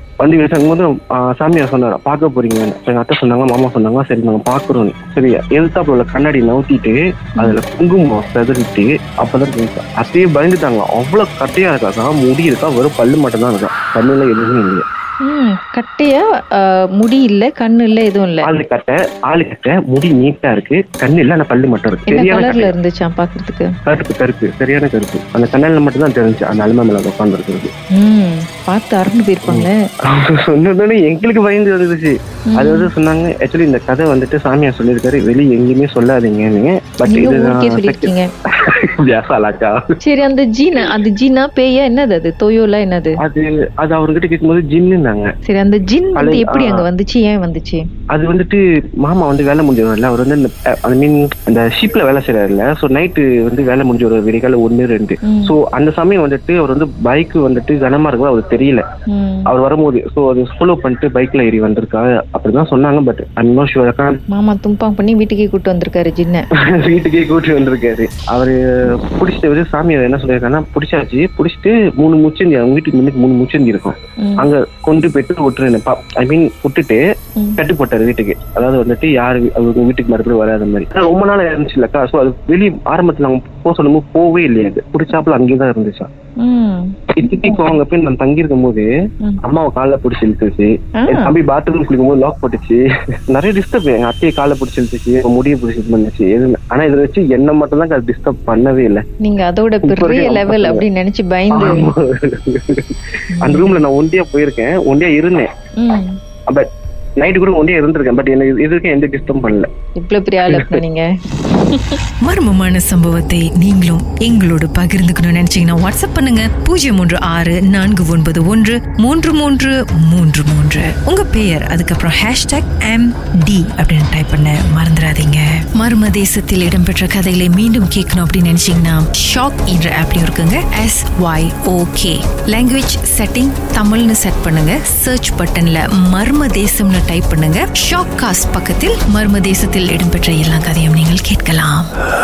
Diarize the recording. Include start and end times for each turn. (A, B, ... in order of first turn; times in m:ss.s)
0:00.2-0:14.8 A
0:15.3-0:18.5 B
0:18.4-0:22.8 A
0:22.1-0:23.7 B
0:23.9-0:27.7 A
0:28.0-0:29.7 B
0:29.4-0:38.1 A
0:32.5-0:32.9 B
0:37.1-0:38.3 B
0:38.8-0:39.8 A
0:40.0-0:43.2 B
0:43.2-0:45.3 A
0:45.5-0:47.8 B
0:46.2-0:46.8 A
0:48.1-0:58.8 A
0:55.2-0:55.6 B
0:59.1-0:59.5 B
0:59.5-1:04.2 A
1:04.3-1:06.4 B
1:06.6-1:17.0 A
1:17.6-1:26.1 A
1:26.4-1:27.0 B
1:27.1-1:28.9 A
1:29.4-1:39.0 A
1:31.0-1:31.3 B
1:39.2-1:41.8 B
1:39.9-1:40.8 A
1:41.5-1:45.5 A
1:43.4-1:43.8 B
1:45.8-1:46.1 B
1:47.2-1:49.7 A
1:50.0-1:52.0 B
1:50.5-1:50.8 A
1:52.2-2:21.9 C